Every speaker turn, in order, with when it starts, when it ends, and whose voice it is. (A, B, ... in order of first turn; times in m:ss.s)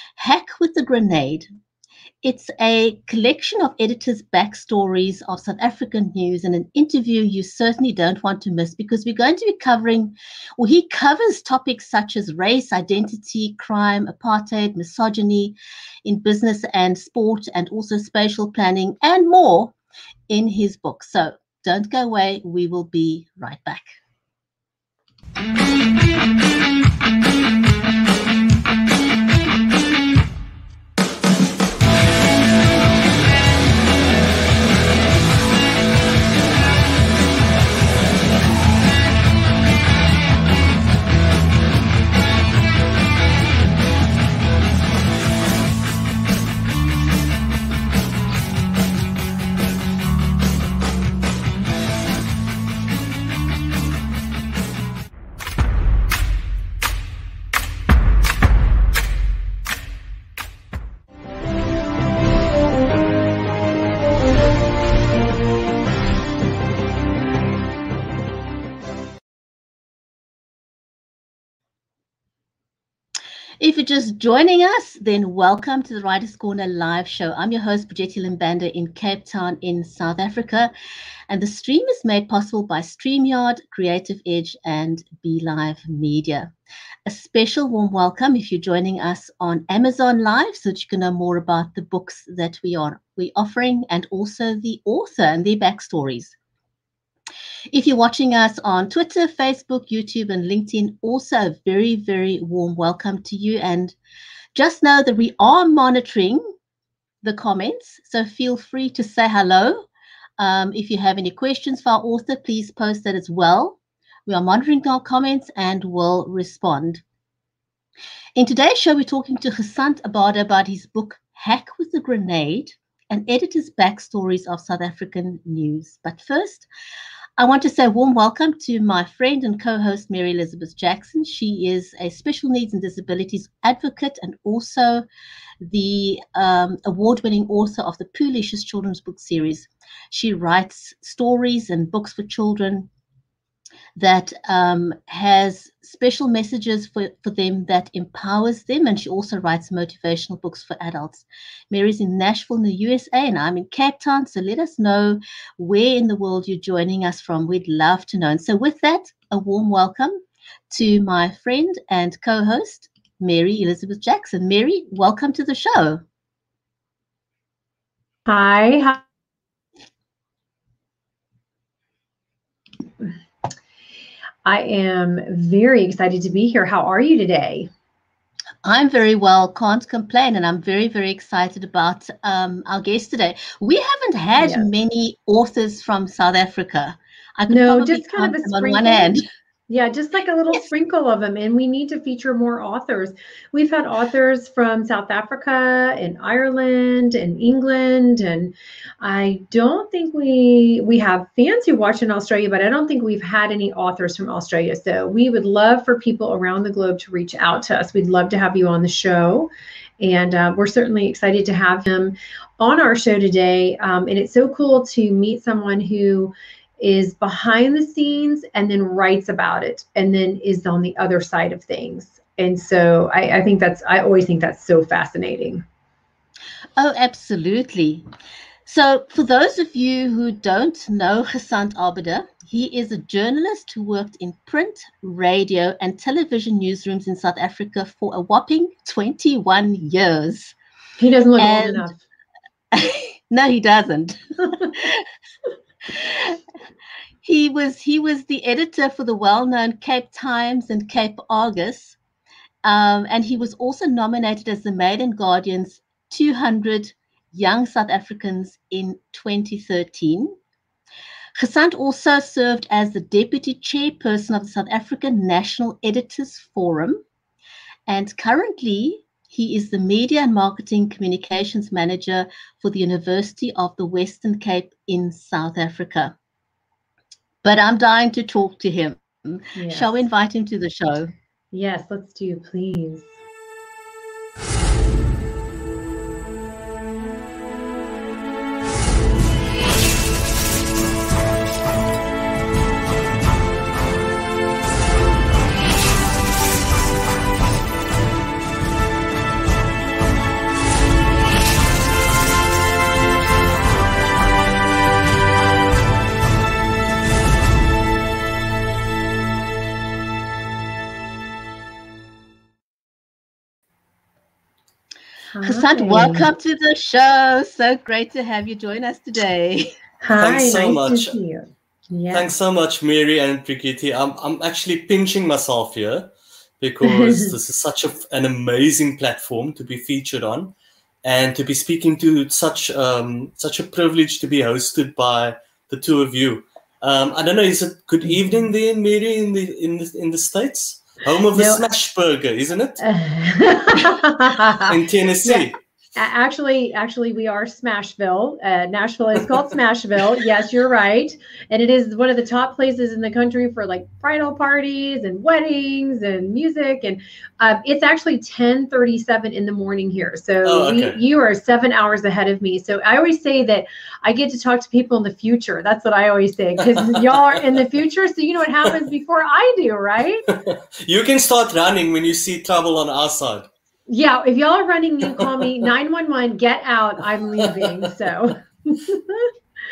0:00.2-0:01.5 A
0:02.2-0:19.7 A
0:20.3-0:23.9 A
1:13.6-1:20.7 A
1:21.3-1:26.5 A
1:27.1-1:36.3 A
1:37.7-1:44.0 A
1:44.5-1:46.4 A
1:47.2-1:49.9 A
1:50.4-1:57.0 A
1:58.4-2:06.7 A
2:07.4-2:15.0 A
2:15.6-2:22.9 A
2:24.0-2:40.2 A
2:40.7-2:46.0 A
2:48.3-2:49.0 B
2:54.4-2:57.7 B
2:58.6-3:09.2 A
3:04.4-3:04.7 B
3:07.5-3:09.1 B
3:09.7-3:45.6 B
3:46.8-3:48.0 A
3:48.7-4:00.6 A
4:01.0-4:02.0 B
4:01.4-4:01.8 A
4:02.7-4:05.0 A
4:05.9-4:06.4 A
4:07.2-4:12.0 A
4:12.6-4:20.4 A
4:21.4-4:27.0 A
4:27.9-4:36.2 A
4:37.4-4:41.1 A
4:39.6-4:40.0 B
4:41.5-4:43.1 B
5:15.3-5:16.3 B
5:15.4-5:19.7 A
5:20.0-5:22.3 B
5:20.1-5:21.2 C
5:22.1-5:42.8 C
5:26.8-5:27.3 B
5:41.3-5:41.6 B
5:42.8-6:10.3 B
5:44.7-5:45.6 C
6:00.4-6:01.0 C
6:06.9-6:07.6 C
6:10.3-6:13.5 C
6:13.9-6:19.3 B
6:15.0-6:15.7 C
6:17.4-6:17.9 C